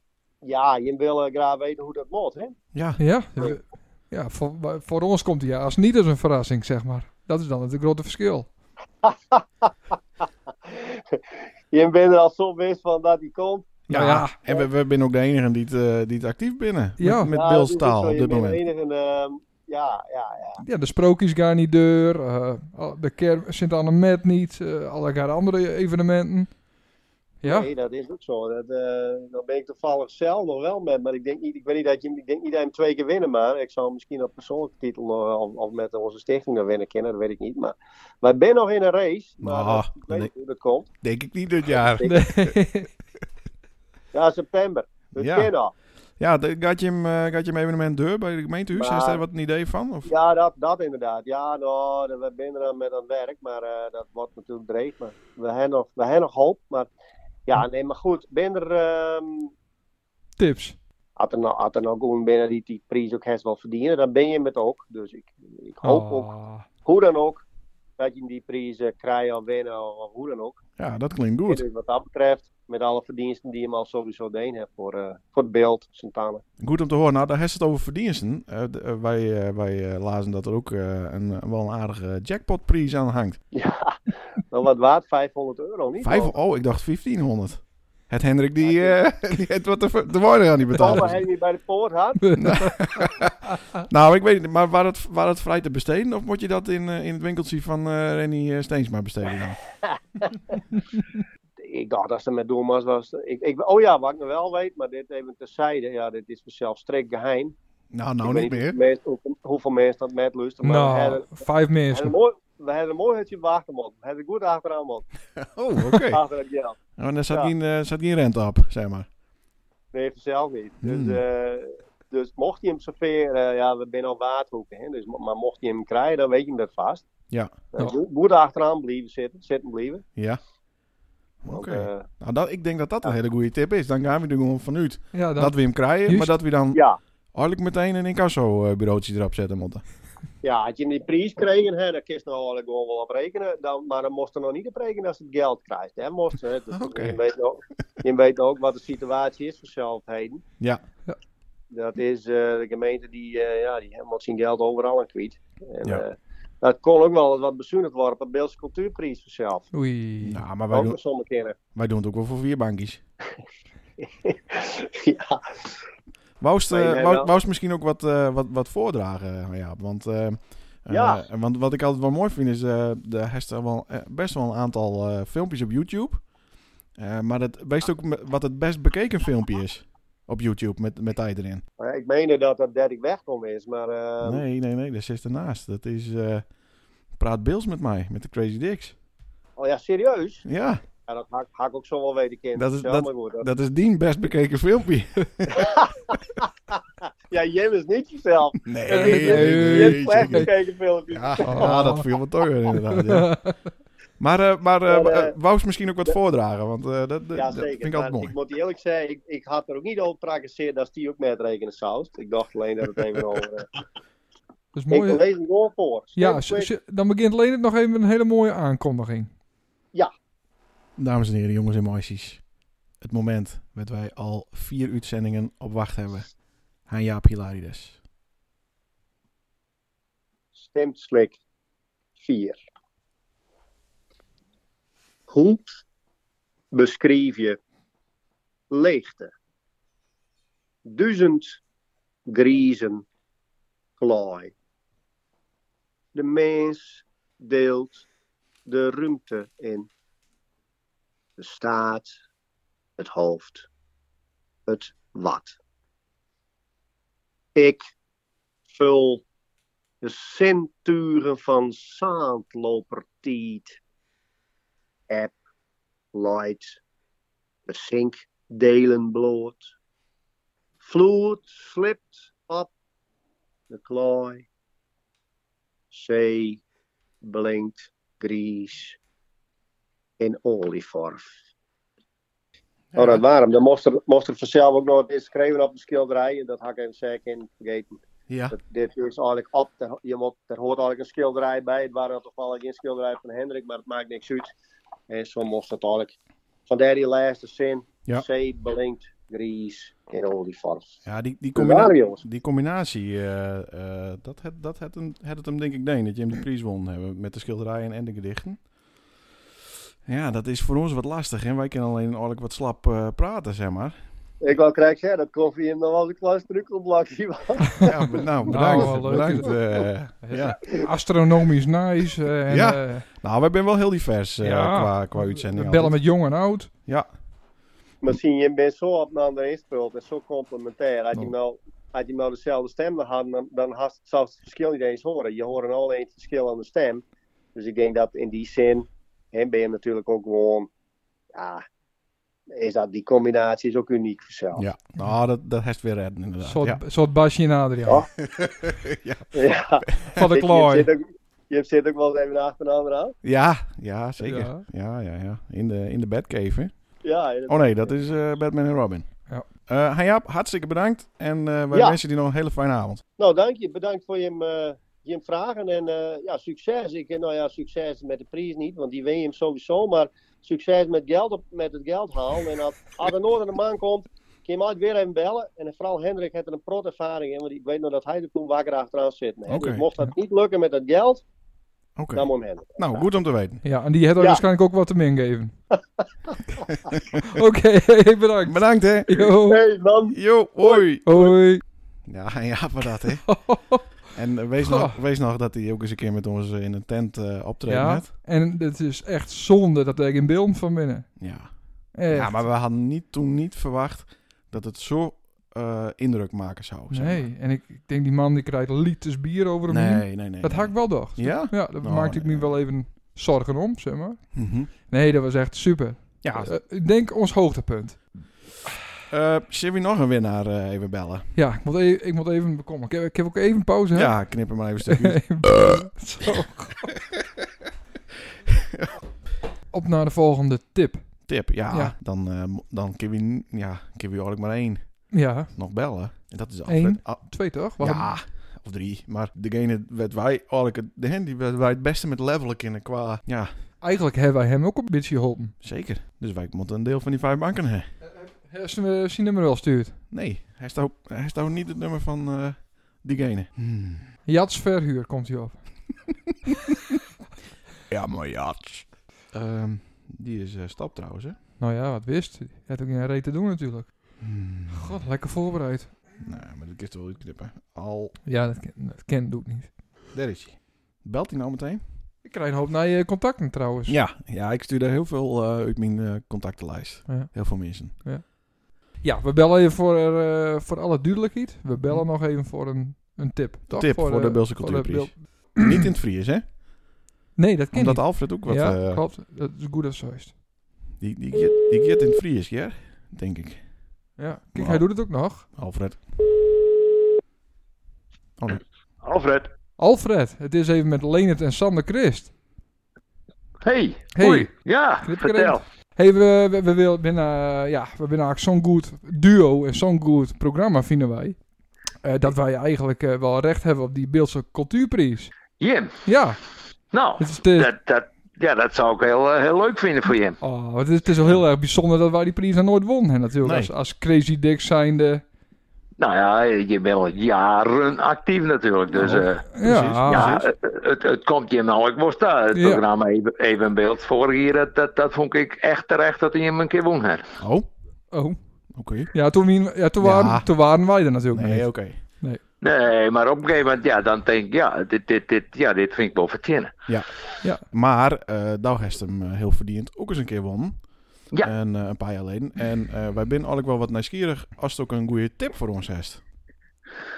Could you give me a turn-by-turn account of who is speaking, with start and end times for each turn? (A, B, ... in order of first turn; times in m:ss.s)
0:00.4-0:02.6 A
0:02.7-0:03.0 B
0:03.0-0:08.5 C
0:09.0-0:09.7 A
0:10.7-0:13.8 A
0:13.9-0:18.6 B
0:13.9-0:14.3 C
0:17.0-0:17.3 C
0:17.3-0:20.6 A
0:20.6-0:26.6 C
0:27.4-0:27.7 C
0:27.4-0:40.9 A
0:39.4-0:40.3 B
0:41.0-0:42.5 B
0:41.7-0:42.2 A
0:42.0-0:42.9 C
0:44.1-0:45.7 A
0:45.2-0:45.5 B
0:46.2-0:50.1 B
0:48.7-0:49.2 A
0:50.0-0:56.9 A
0:57.5-0:59.5 A
1:00.4-1:00.8 C
1:01.2-1:06.3 A
1:05.8-1:06.6 C
1:06.8-1:07.4 A
1:08.0-1:10.6 A
1:10.8-1:11.6 B
1:11.5-1:16.4 A
1:16.6-1:23.4 B
1:23.5-1:26.3 A
1:26.0-1:31.2 B
1:28.6-1:29.0 A
1:30.8-1:32.3 A
1:32.2-1:33.0 C
1:32.4-1:39.6 B
1:39.9-1:40.3 A
1:41.6-1:47.6 A
1:47.9-1:48.8 B
1:48.2-1:55.1 A
1:50.6-1:52.2 C
1:55.4-1:56.2 B
1:55.9-1:56.8 A
1:57.0-1:59.1 B
1:59.9-2:07.0 A
2:00.8-2:01.2 B
2:07.7-2:10.0 A
2:11.4-2:16.8 B
2:11.5-2:12.1 A
2:15.1-2:16.3 C
2:17.3-2:19.8 B
2:20.4-2:30.4 A
2:26.7-2:27.2 B
2:31.7-2:39.7 A
2:39.7-2:40.4 C
2:40.2-2:41.0 B
2:40.7-2:41.6 A
2:41.7-2:43.0 B
2:44.0-2:45.7 A
2:46.4-2:56.3 B
2:46.7-2:47.3 A
2:50.9-2:51.2 A
2:56.9-3:01.6 B
3:01.8-3:04.4 A
3:04.2-3:06.5 B
3:07.1-3:09.0 B
3:09.6-3:10.5 A
3:10.4-3:10.8 B
3:11.1-3:13.5 A
3:12.6-3:15.8 B
3:15.5-3:22.1 A
3:18.6-3:20.5 B
3:18.9-3:20.5 C
3:21.1-3:23.3 B
3:21.4-3:22.0 C
3:22.9-3:23.6 C
3:24.2-3:28.3 B
3:24.9-3:25.4 A
3:27.4-3:33.7 A
3:34.7-3:35.2 C
3:34.9-3:36.7 A
3:36.2-3:39.3 C
3:41.0-3:42.4 B
3:43.0-3:46.3 B
3:46.9-3:48.0 B
3:50.6-3:51.4 A
3:52.2-3:52.6 A
3:55.3-3:55.8 A
3:56.7-3:57.6 A
3:58.7-3:59.3 A
4:00.8-4:01.6 A
4:02.3-4:03.0 A
4:04.0-4:04.5 A
4:06.1-4:08.1 A
4:08.7-4:09.9 A
4:11.4-4:12.2 A
4:13.0-4:13.7 A
4:14.7-4:15.6 A
4:17.6-4:17.8 A
4:18.7-4:19.2 A
4:20.0-4:23.8 A
4:25.1-4:25.3 A
4:26.1-4:26.8 A
4:27.7-4:29.7 A
4:30.8-4:32.7 A
4:33.7-4:34.5 A
4:35.9-4:36.6 A
4:37.2-4:39.0 A
4:40.2-4:41.2 A
4:42.9-4:43.2 B
4:43.0-4:48.0 A
4:48.3-4:48.6 B
4:48.5-4:54.5 A
4:55.1-4:56.1 A
4:56.7-5:01.0 A
5:01.0-5:08.6 B
5:01.6-5:02.2 A
5:10.1-5:14.0 B
5:14.4-5:18.2 A
5:17.8-5:20.6 B
5:18.4-5:19.6 C
5:20.2-5:23.1 C
5:22.5-5:26.0 B
5:24.4-5:26.7 C
5:26.9-5:27.1 B
5:28.0-5:37.0 A
5:37.6-5:40.7 A
5:41.3-5:41.6 A
5:42.5-5:44.6 A
5:44.6-5:46.8 B
5:46.4-5:48.1 C
5:48.2-5:50.2 B
5:49.3-5:53.2 A
5:50.2-5:50.9 C
5:53.2-6:03.0 B
5:54.2-5:54.6 C
5:57.0-5:57.9 A
6:01.7-6:02.0 A
6:03.2-6:21.2 A
6:19.5-6:19.9 B
6:22.0-6:23.6 B
6:22.2-6:23.0 A
6:23.6-6:25.6 C
6:26.0-6:26.6 A
6:26.7-6:27.2 B
6:27.2-6:29.6 C
6:28.4-6:29.3 B
6:29.3-6:31.3 A
6:30.1-6:31.1 B
6:31.0-6:31.6 C
6:32.0-6:33.4 B
6:33.3-6:33.8 C
6:34.1-6:38.1 B
6:34.6-6:35.0 C
6:37.7-6:41.3 C
6:41.2-6:47.3 B
6:41.9-6:42.5 C
6:46.9-6:58.2 C
6:49.7-6:52.6 B
6:54.3-6:54.7 B
6:56.2-6:56.5 B
6:59.1-7:01.3 B
7:01.4-7:07.0 C
7:03.9-7:05.8 B
7:09.7-7:11.9 C
7:11.2-7:23.5 B
7:15.1-7:15.5 C
7:16.7-7:18.1 C
7:23.8-7:25.6 C
7:25.6-7:27.9 B
7:28.2-7:30.0 C
7:30.1-7:34.1 B
7:34.2-7:36.1 C
7:37.9-7:41.4 B
7:41.6-7:46.0 C
7:44.2-7:45.0 B
7:46.2-7:48.2 B
7:48.2-7:49.8 C
7:50.1-7:51.9 B
7:52.2-7:54.0 C
7:53.9-7:58.0 B
7:57.1-8:05.8 C
8:03.7-8:06.6 B
8:07.4-8:10.4 C
8:07.7-8:09.0 B
8:11.0-8:13.8 B
8:14.2-8:15.5 C
8:14.6-8:16.0 B
8:19.0-8:19.5 D
8:19.8-8:22.3 C
8:23.6-8:25.6 D
8:24.2-8:24.5 C
8:25.0-8:31.5 C
8:32.0-8:35.3 C
8:35.6-8:36.0 D
8:36.1-8:36.4 C
8:36.9-8:40.4 D
8:37.2-8:37.7 C
8:40.4-8:45.2 C
8:43.4-8:43.7 B
8:46.0-8:57.3 D
8:49.0-8:50.5 B
8:49.5-8:50.3 C
8:52.6-8:52.8 C
8:57.4-8:57.7 B
8:58.1-8:58.4 C
8:58.7-8:59.1 B
8:59.1-9:02.4 C
9:00.0-9:00.5 B
9:01.3-9:02.0 B
9:02.6-9:06.7 D
9:07.6-9:16.2 B